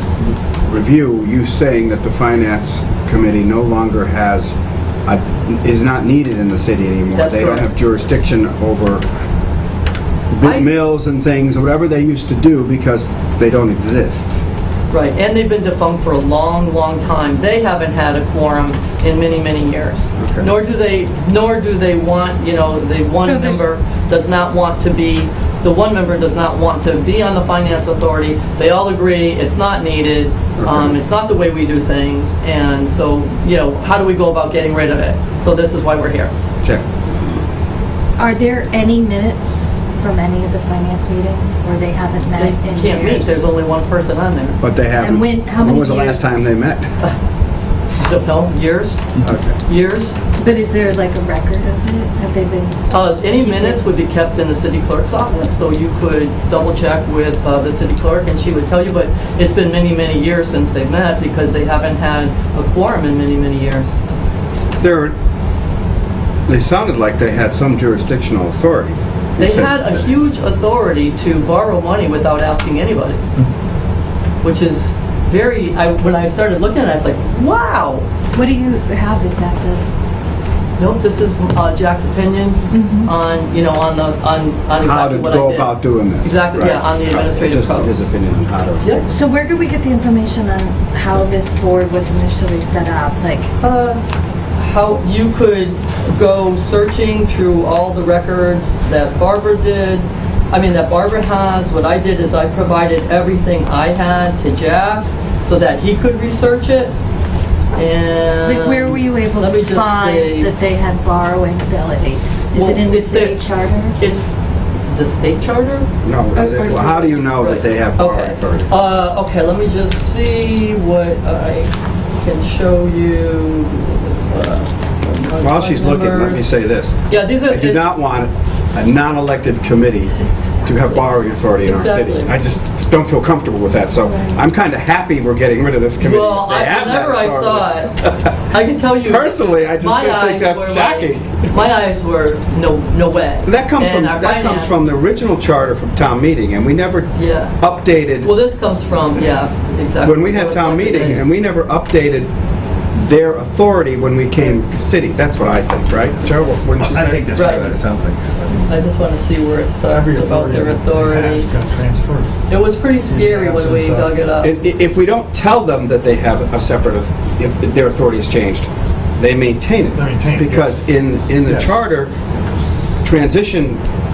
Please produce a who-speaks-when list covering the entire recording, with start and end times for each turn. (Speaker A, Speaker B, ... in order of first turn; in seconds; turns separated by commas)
Speaker A: 0.7-9.0, Speaker B: 7.1-7.7, Speaker A: 10.3-14.4, Speaker B: 10.4-10.7, Speaker B: 14.9-36.3, Speaker A: 20.2-20.5, Speaker C: 23.2-23.6, Speaker A: 30.6-31.0, Speaker C: 38.2-43.4, Speaker B: 42.4-44.6, Speaker A: 44.6-46.9, Speaker C: 45.0-46.4, Speaker B: 48.0-49.1, Speaker A: 49.2-49.5, Speaker B: 49.6-50.2, Speaker C: 50.4-53.8, Speaker B: 52.9-64.0, Speaker A: 64.8-65.1, Speaker A: 66.5-69.9, Speaker B: 69.4-73.2, Speaker B: 74.4-78.0, Speaker C: 78.3-79.8, Speaker B: 80.8-87.9, Speaker C: 82.7-83.1, Speaker A: 84.8-89.0, Speaker B: 88.8-89.0, Speaker C: 89.1-93.5, Speaker B: 93.6-94.0, Speaker B: 94.6-106.9, Speaker B: 107.7-110.5, Speaker C: 108.4-114.0, Speaker B: 112.5-113.4, Speaker B: 114.0-114.3, Speaker B: 114.9-126.5, Speaker A: 116.0-118.8, Speaker C: 116.3-117.0, Speaker A: 125.4-130.1, Speaker B: 127.1-127.9, Speaker A: 130.7-138.3, Speaker B: 131.6-132.3, Speaker B: 136.0-138.0, Speaker B: 138.5-144.8, Speaker A: 139.0-141.5, Speaker A: 143.4-148.3, Speaker B: 147.2-147.6, Speaker B: 148.2-151.2, Speaker A: 150.0-152.3, Speaker A: 152.9-157.8, Speaker D: 156.2-158.7, Speaker B: 157.3-157.8, Speaker B: 158.7-161.5, Speaker D: 159.9-162.3, Speaker B: 162.5-164.5, Speaker D: 163.0-164.2, Speaker A: 164.4-172.1, Speaker D: 169.9-170.8, Speaker D: 171.4-171.7, Speaker A: 173.0-173.8